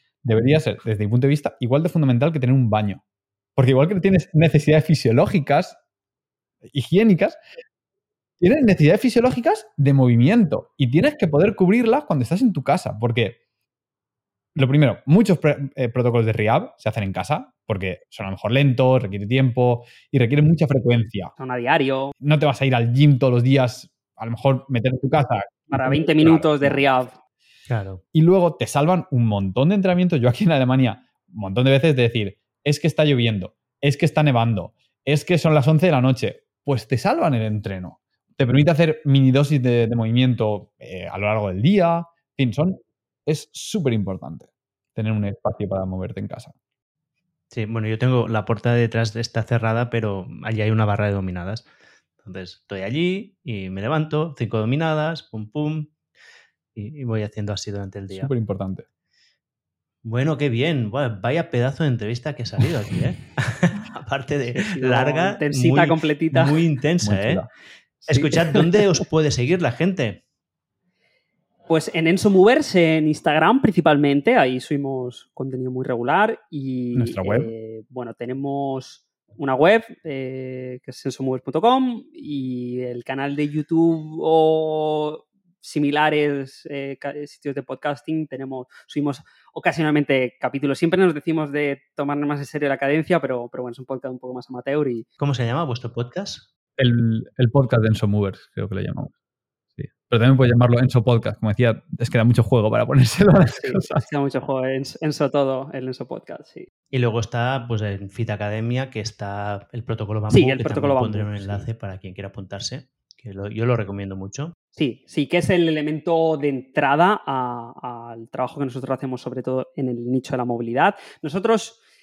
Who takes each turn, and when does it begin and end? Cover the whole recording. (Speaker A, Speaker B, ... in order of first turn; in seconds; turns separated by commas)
Speaker A: 0.2-3.0, Speaker A: 3.6-5.8, Speaker A: 6.7-7.4, Speaker A: 8.4-13.4, Speaker A: 14.6-21.3, Speaker B: 21.4-22.1, Speaker A: 22.2-27.1, Speaker B: 25.7-27.1, Speaker C: 27.7-28.0, Speaker A: 28.1-46.5, Speaker C: 47.5-51.7, Speaker C: 52.2-55.9, Speaker C: 56.8-58.3, Speaker A: 58.1-58.9, Speaker C: 60.0-67.4, Speaker B: 64.5-66.6, Speaker A: 67.0-67.5, Speaker C: 68.1-70.2, Speaker B: 68.3-68.6, Speaker B: 71.7-95.1, Speaker A: 77.0-77.5, Speaker C: 95.2-96.5, Speaker A: 96.8-99.1, Speaker A: 99.8-104.0, Speaker B: 103.6-106.7, Speaker C: 106.9-114.5, Speaker B: 110.3-111.7, Speaker B: 114.8-121.8